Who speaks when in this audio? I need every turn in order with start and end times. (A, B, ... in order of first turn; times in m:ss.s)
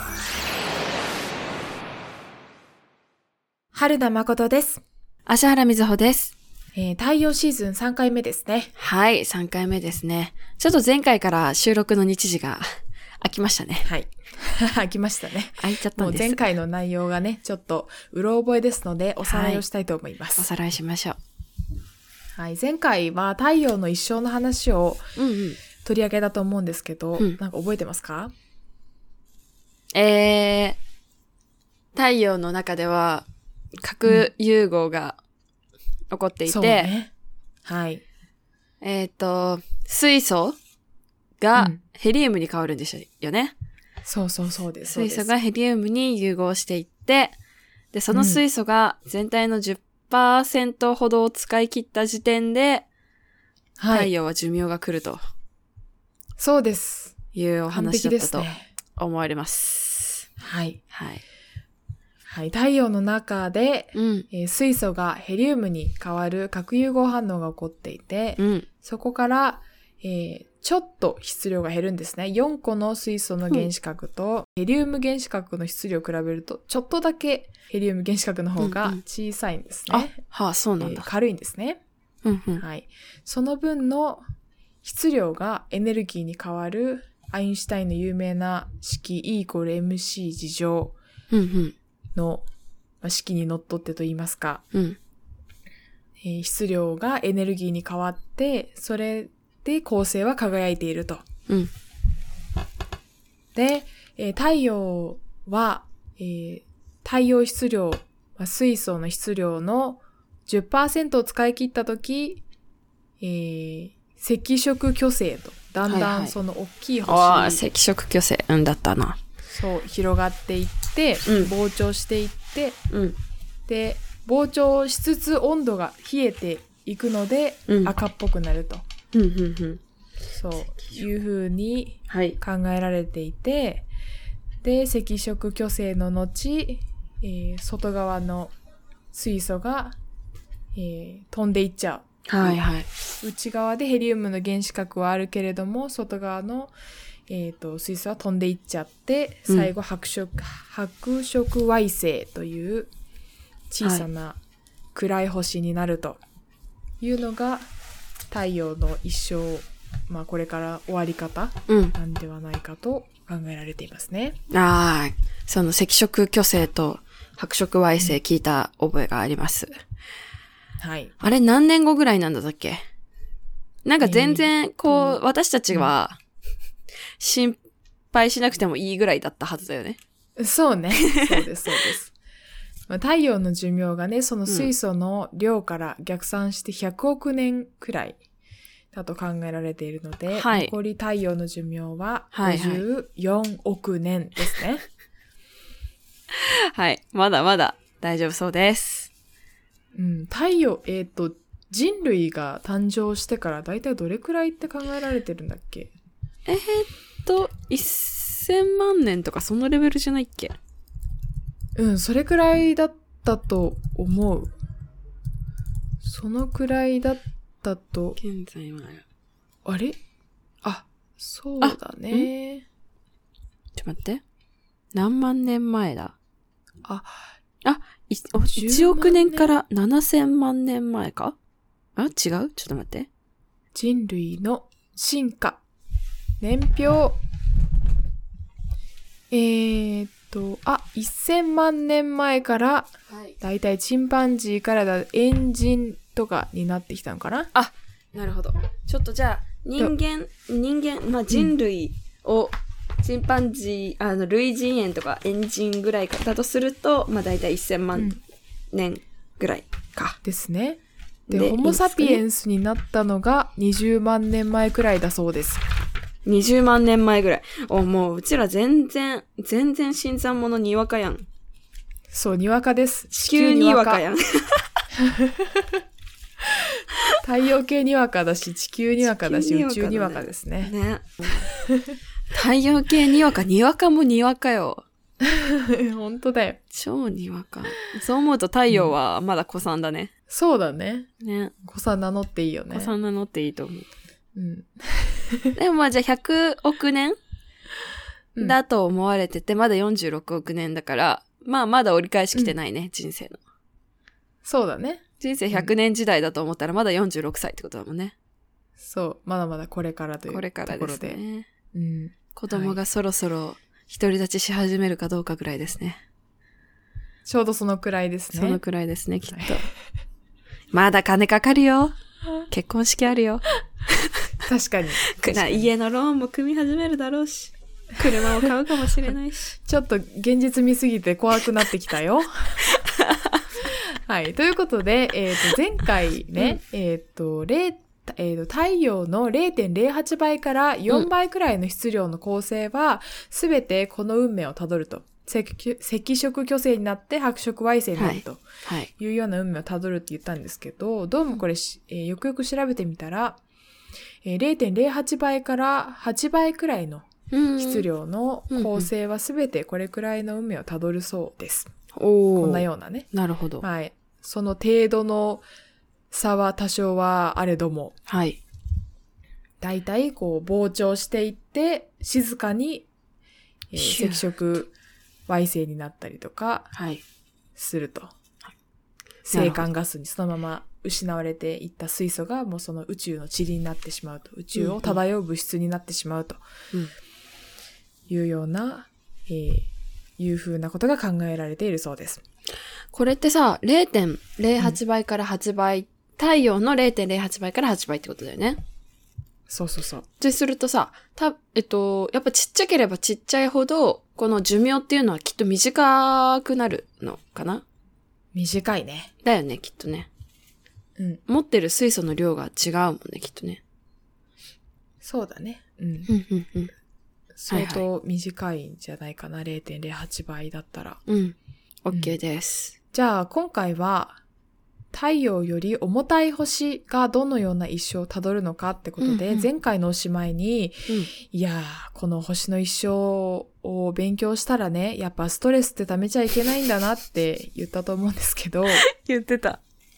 0:03.7-0:04.8 A
0:05.3-0:06.3 B
0:06.8-0:08.7 A
0:08.8-0:12.6 B
0:13.2-0:13.9 B
0:13.8-0:20.5 A
0:15.6-0:16.4 B
0:19.2-0:19.6 B
0:20.4-0:21.2 B
0:22.4-0:25.1 A
0:25.2-0:25.6 B
0:25.8-0:28.3 A
0:29.9-0:30.8 B
0:31.9-0:35.2 B
0:36.1-0:36.9 B
0:36.5-0:37.1 A
0:37.6-0:38.0 A
0:38.8-0:40.6 B
0:41.4-0:43.5 B
0:41.6-0:41.8 A
0:44.1-0:45.3 A
0:44.9-0:47.4 B
0:47.9-0:52.9 B
0:48.1-0:48.4 A
0:53.8-0:54.1 A
0:53.9-0:55.2 B
0:56.4-0:57.2 A
0:57.3-1:00.3 B
0:57.7-0:58.7 A
1:00.4-1:00.8 A
1:00.9-1:01.2 B
1:02.3-1:20.2 A
1:04.0-1:04.3 B
1:08.4-1:08.7 B
1:18.6-1:19.0 B
1:19.9-1:21.1 B
1:20.8-1:21.8 A
1:22.2-1:22.6 B
1:22.6-1:24.2 A
1:24.8-1:31.0 A
1:31.3-1:31.8 B
1:32.2-1:32.4 A
1:33.0-1:34.6 A
1:34.7-1:35.0 B
1:36.2-1:41.2 A
1:43.6-1:52.4 A
1:53.2-1:57.6 A
1:55.8-1:56.4 B
1:57.0-1:59.2 B
1:59.5-2:02.8 A
2:01.3-2:01.5 B
2:02.9-2:03.2 B
2:03.7-2:08.8 A
2:07.7-2:07.9 B
2:09.1-2:09.8 B
2:10.3-2:13.9 A
2:12.1-2:12.4 B
2:14.6-2:18.5 A
2:19.1-2:20.0 A
2:20.7-2:22.6 A
2:22.3-2:22.9 B
2:23.2-2:26.7 A
2:27.3-2:32.9 A
2:29.5-2:29.7 B
2:33.7-2:34.4 A
2:33.8-2:34.1 B
2:34.9-2:36.2 A
2:37.0-2:37.7 A
2:38.3-2:44.4 A
2:41.7-2:42.0 B
2:44.5-2:49.7 B
2:50.8-2:51.2 A
2:51.2-2:52.8 B
2:53.8-2:56.2 B
2:54.0-2:55.2 A
2:57.2-2:57.6 B
2:58.1-3:00.0 B
3:00.4-3:02.1 A
3:02.9-3:08.2 A
3:08.9-3:14.8 A
3:10.3-3:10.7 B
3:12.3-3:12.8 B
3:16.3-3:19.1 B
3:20.0-3:25.9 A
3:26.5-3:30.6 B
3:31.8-3:34.5 A
3:36.0-3:38.2 A
3:38.2-3:39.0 B
3:39.6-3:40.0 A
3:41.2-3:42.6 A
3:41.6-3:42.3 B
3:43.8-3:44.2 B
3:44.9-3:46.2 B
3:46.8-3:47.2 A
3:47.6-3:51.4 B
3:48.4-3:49.6 A
3:52.0-3:53.1 B
3:53.8-3:55.6 A
3:56.4-3:57.2 A
3:59.3-4:07.5 A
4:07.6-4:18.1 B
4:18.0-4:18.2 A
4:18.7-4:20.2 B
4:20.2-4:25.6 A
4:21.3-4:22.2 B
4:26.2-4:31.3 B
4:32.1-4:34.0 A
4:33.3-4:34.7 B
4:35.0-4:35.8 A
4:37.2-4:40.7 A
4:39.0-4:41.5 B
4:41.4-4:42.0 A
4:42.3-4:44.8 B
4:45.2-4:46.6 A
4:46.7-4:50.1 B
4:48.7-4:49.0 A
4:50.3-4:51.1 A
4:51.2-4:51.5 B
4:51.6-4:52.9 A
4:52.7-4:53.9 B
4:54.4-4:55.6 A
4:55.6-4:57.2 B
4:58.4-5:03.4 B
5:04.4-5:05.7 A
5:05.2-5:08.2 B
5:08.8-5:11.2 A
5:10.3-5:11.5 B
5:11.7-5:12.8 A
5:12.4-5:16.0 B
5:17.3-5:18.6 A
5:18.3-5:19.6 B
5:19.3-5:19.7 A
5:20.7-5:22.0 B
5:22.5-5:24.3 B
5:24.4-5:25.7 A
5:25.1-5:29.5 B
5:28.1-5:28.5 A
5:29.6-5:32.6 A
5:32.7-5:33.4 B
5:33.6-5:48.4 A
5:48.0-5:48.9 B
5:49.0-5:53.4 A
5:54.2-6:01.7 A
5:57.3-5:57.8 B
5:58.5-5:58.9 B
6:01.9-6:03.6 B
6:02.4-6:03.1 A
6:03.6-6:05.4 A
6:06.1-6:08.0 A
6:08.1-6:08.4 B
6:09.6-6:12.9 A
6:13.7-6:14.7 A
6:13.8-6:14.2 B
6:15.3-6:16.7 A
6:16.8-6:17.0 B
6:17.6-6:18.1 A
6:19.3-6:26.4 A
6:19.3-6:19.7 B
6:24.6-6:25.0 B
6:28.1-6:32.2 A
6:32.9-6:38.6 B
6:39.5-6:40.1 A
6:40.2-6:47.6 B
6:48.3-6:49.1 A
6:49.2-6:50.1 B
6:51.3-6:53.6 B
6:55.0-6:56.1 A
6:56.1-6:56.7 B
6:57.4-7:01.0 A
6:57.5-6:57.8 B
7:01.1-7:02.8 B
7:02.9-7:04.2 A
7:04.9-7:18.9 A
7:09.0-7:09.5 B
7:18.8-7:19.6 B